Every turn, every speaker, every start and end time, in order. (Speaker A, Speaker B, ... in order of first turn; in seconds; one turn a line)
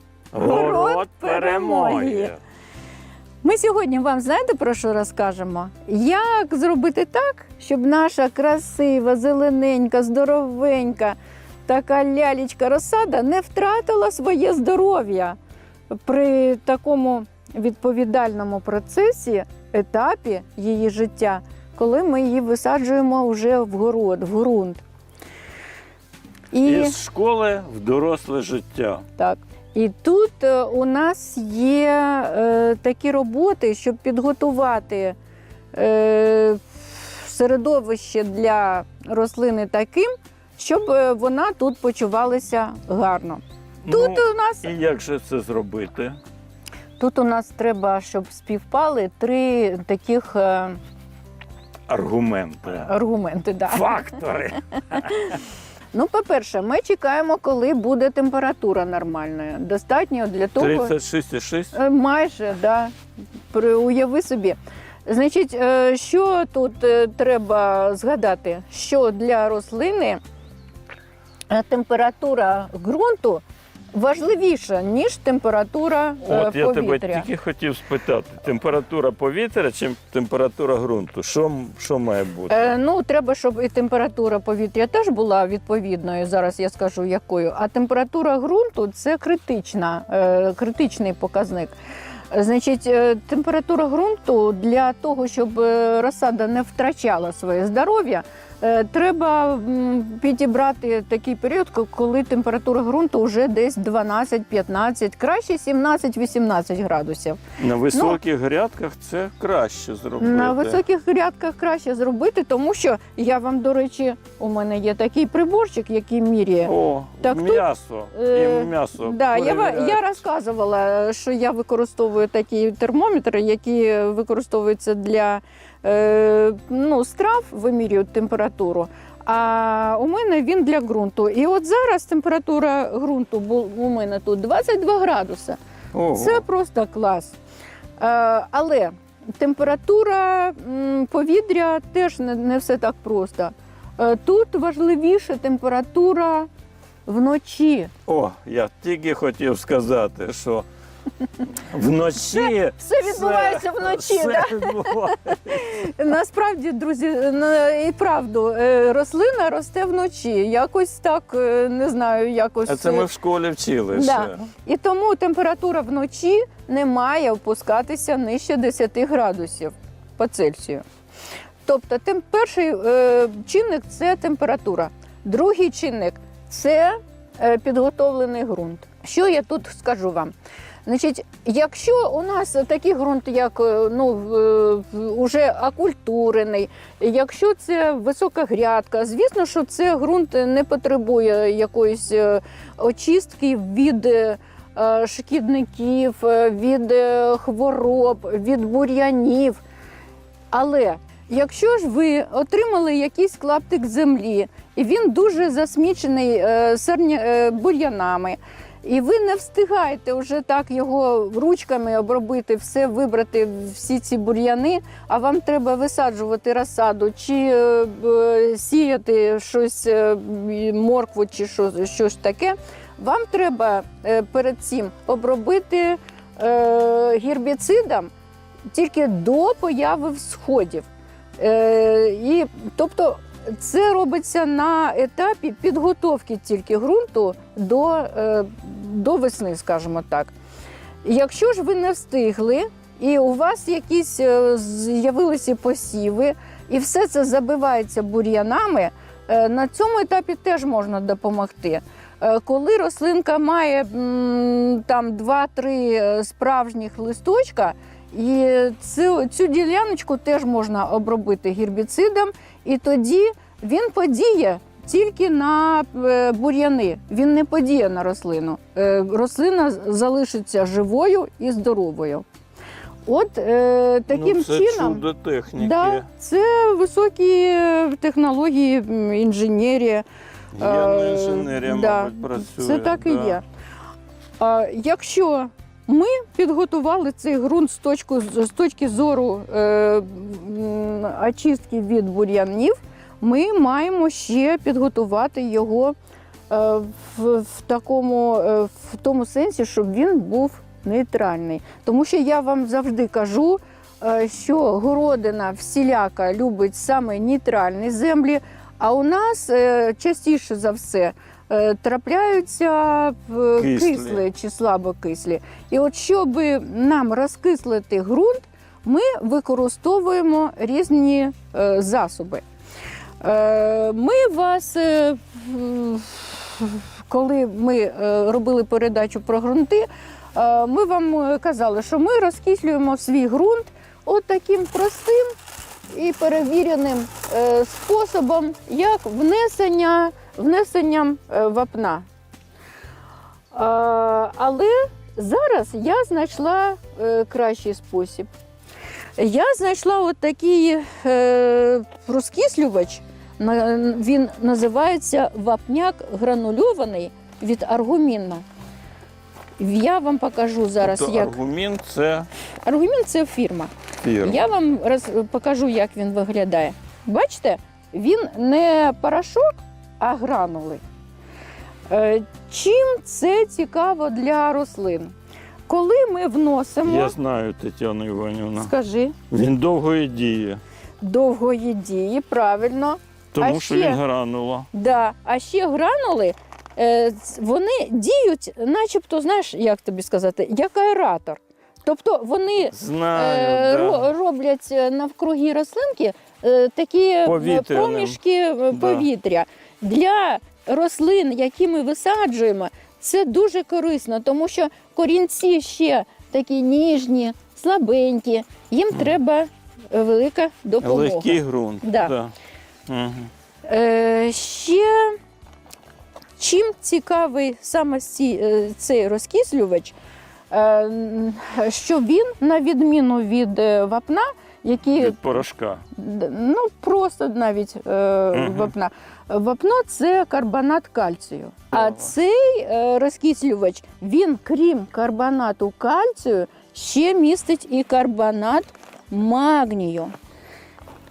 Speaker A: 0.3-2.4
Speaker B: 0.4-2.3
Speaker B: 3.4-15.4
Speaker B: 15.9-24.8
Speaker B: 26.5-27.0
Speaker A: 26.6-29.1
Speaker B: 29.2-35.2
Speaker B: 35.7-44.7
Speaker A: 43.8-46.2
Speaker B: 47.0-50.8
Speaker A: 51.9-52.9
Speaker B: 52.8-54.1
Speaker A: 53.7-55.4
Speaker B: 55.9-60.9
Speaker A: 60.6-61.8
Speaker B: 61.7-62.9
Speaker B: 63.5-70.2
Speaker B: 71.5-73.4
Speaker B: 73.9-77.2
Speaker A: 76.2-82.7
Speaker B: 82.5-91.7
Speaker B: 92.3-107.4
Speaker A: 107.6-110.8
Speaker B: 107.9-108.2
Speaker B: 110.2-135.6
Speaker A: 116.7-120.2
Speaker A: 135.9-136.4
Speaker B: 136.1-137.3
Speaker B: 138.0-146.5
Speaker B: 147.1-147.9
Speaker A: 148.1-150.7
Speaker A: 151.4-155.7
Speaker B: 152.3-163.1
Speaker A: 162.7-164.5
Speaker B: 163.9-170.8
Speaker B: 171.7-180.3
Speaker B: 180.8-199.6
Speaker B: 200.5-228.1
Speaker B: 228.7-230.9
Speaker B: 231.4-240.3
Speaker B: 241.0-272.2
Speaker B: 273.1-275.0
Speaker A: 274.1-276.1
Speaker B: 275.6-280.1
Speaker A: 280.6-283.4
Speaker B: 280.6-283.4
Speaker B: 284.4-295.9
Speaker B: 296.5-322.4
Speaker A: 313.6-314.2
Speaker B: 323.2-335.3
Speaker B: 335.9-342.1
Speaker B: 343.5-348.3
Speaker B: 349.2-358.4
Speaker B: 359.6-361.4
Speaker A: 360.8-362.3
Speaker B: 362.6-363.7
Speaker A: 364.0-364.4
Speaker B: 364.2-370.8
Speaker B: 371.9-375.1
Speaker B: 375.7-377.1
Speaker A: 376.8-378.7
Speaker B: 378.6-379.2
Speaker A: 379.3-380.6
Speaker B: 381.0-384.0
Speaker A: 383.3-384.7
Speaker B: 384.7-412.1
Speaker A: 392.7-394.1
Speaker A: 397.2-398.2
Speaker A: 398.7-399.1
Speaker A: 410.8-412.3
Speaker A: 412.9-413.3
Speaker B: 413.7-415.2
Speaker B: 416.4-419.9
Speaker B: 420.5-425.4
Speaker A: 425.0-425.9
Speaker B: 425.9-440.1
Speaker A: 428.3-428.7
Speaker A: 431.7-432.1